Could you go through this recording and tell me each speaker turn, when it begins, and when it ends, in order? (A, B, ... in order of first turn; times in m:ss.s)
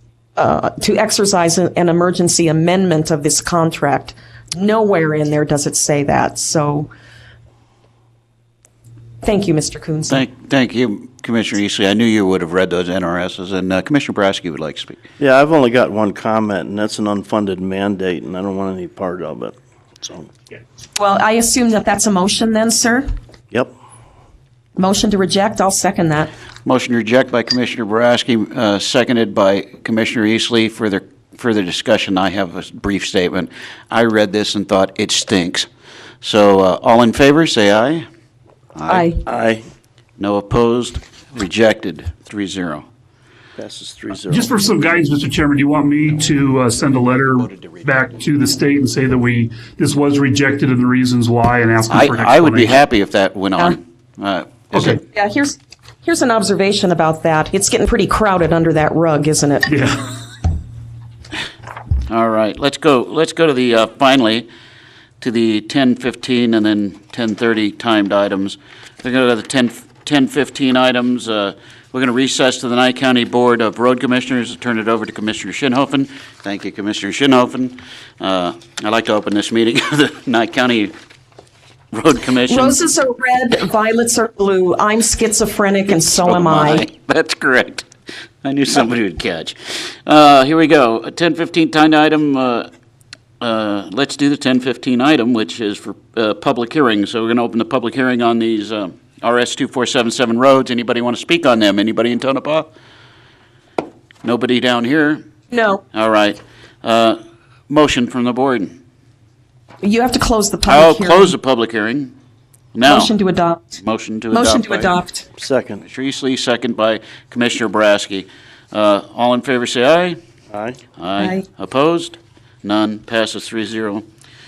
0:00.4-0:06.9 A
0:09.2-0:10.2 A
0:10.1-0:15.0 B
0:15.2-0:20.3 C
0:21.0-0:23.1 A
0:24.8-0:26.3 A
0:26.7-0:35.7 B
0:36.2-0:38.0 B
0:38.8-0:39.1 B
0:38.9-0:39.2 A
0:39.3-0:39.6 C
0:40.2-0:42.9 B
0:43.6-0:44.6 C
0:44.3-0:52.7 D
0:46.1-0:47.9 B
0:51.9-0:55.0 B
0:55.1-0:59.7 A
0:59.7-1:00.0 D
1:02.1-1:04.5 B
1:05.2-1:20.9 B
1:21.9-1:22.8 B
1:22.5-1:26.9 A
1:26.0-1:27.9 B
1:28.4-1:32.7 B
1:33.4-1:42.7 B
1:44.2-1:45.2 B
1:45.5-1:45.8 A
1:45.9-1:48.8 B
1:49.8-1:51.3 A
1:50.7-1:52.1 B
1:52.8-1:53.1 B
1:52.8-1:53.8 A
1:53.8-1:54.9 B
1:54.3-1:55.3 A
1:55.4-1:55.8 C
1:55.8-2:00.2 B
2:00.5-2:00.8 C
2:01.0-2:04.0 B
2:01.2-2:01.4 A